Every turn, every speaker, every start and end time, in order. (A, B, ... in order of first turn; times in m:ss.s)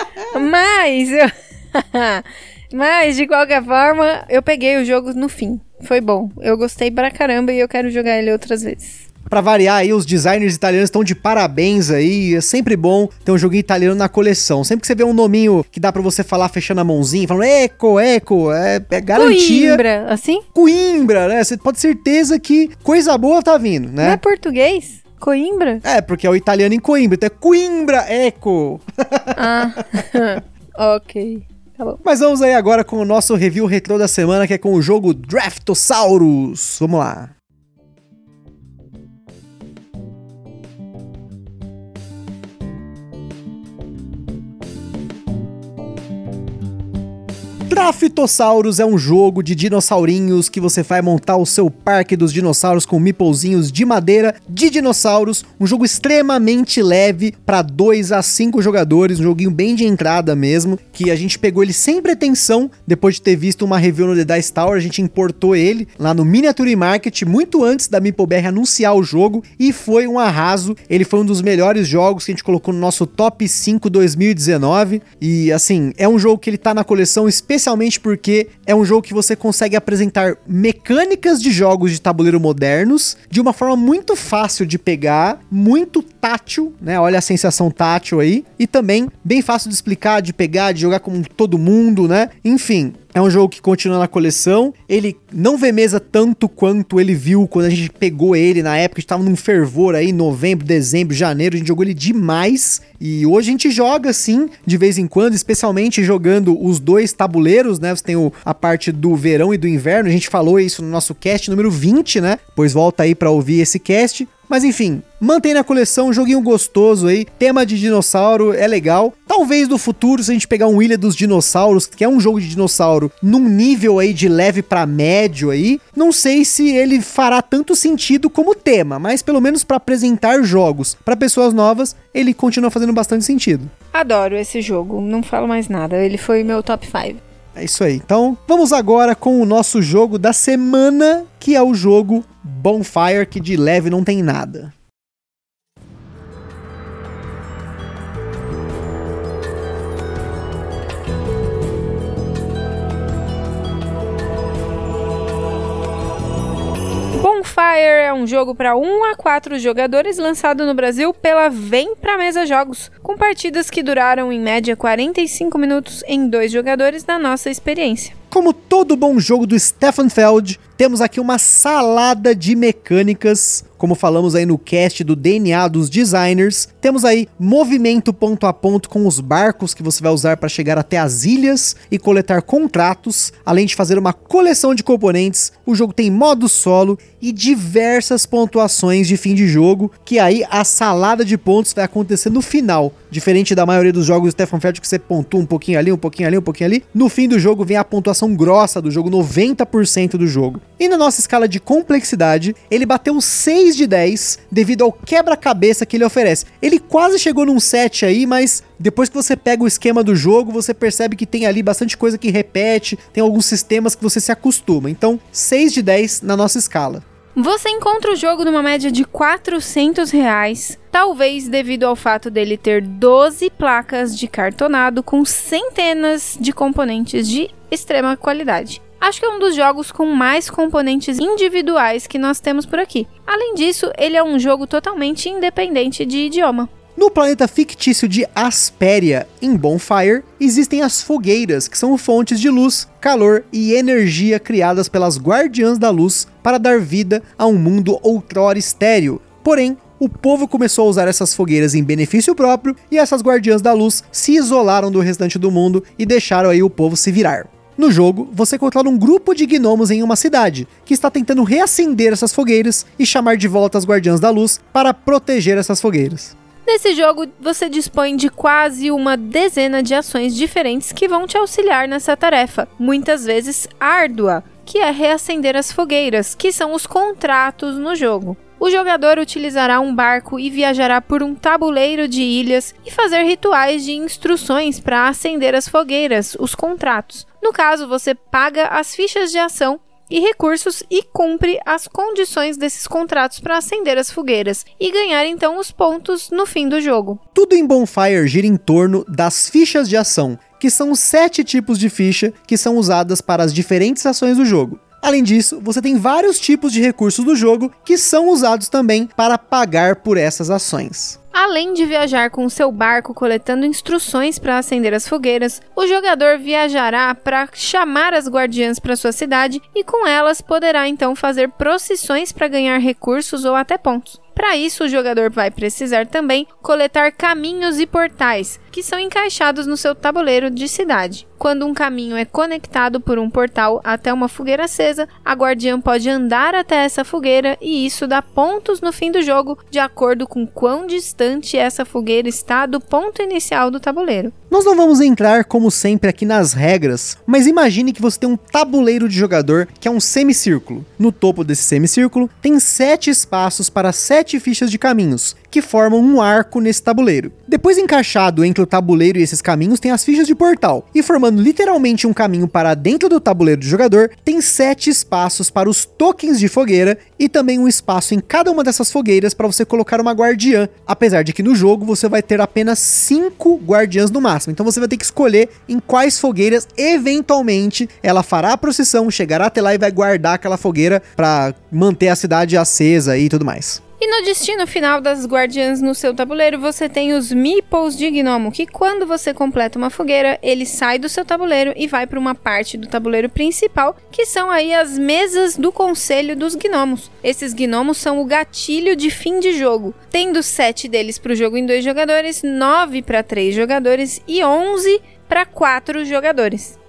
0:00.3-0:09.0 A
0:09.3-0:19.8 B
0:19.1-0:20.4 A
0:20.5-0:24.2 B
0:24.0-0:25.8 A
0:25.8-0:29.8 B
0:29.3-0:32.0 A
0:32.0-0:37.3 B
0:47.7-2:13.7 B
2:13.9-2:17.2 A
2:17.6-2:24.7 B
2:37.1-2:48.1 A
2:48.3-3:37.0 B
3:37.4-3:56.7 A
3:57.0-4:26.3 B
4:26.6-4:57.2 A
4:57.3-5:11.2 B
5:11.3-5:44.3 A
5:44.5-6:23.8 B
6:24.0-6:46.8 A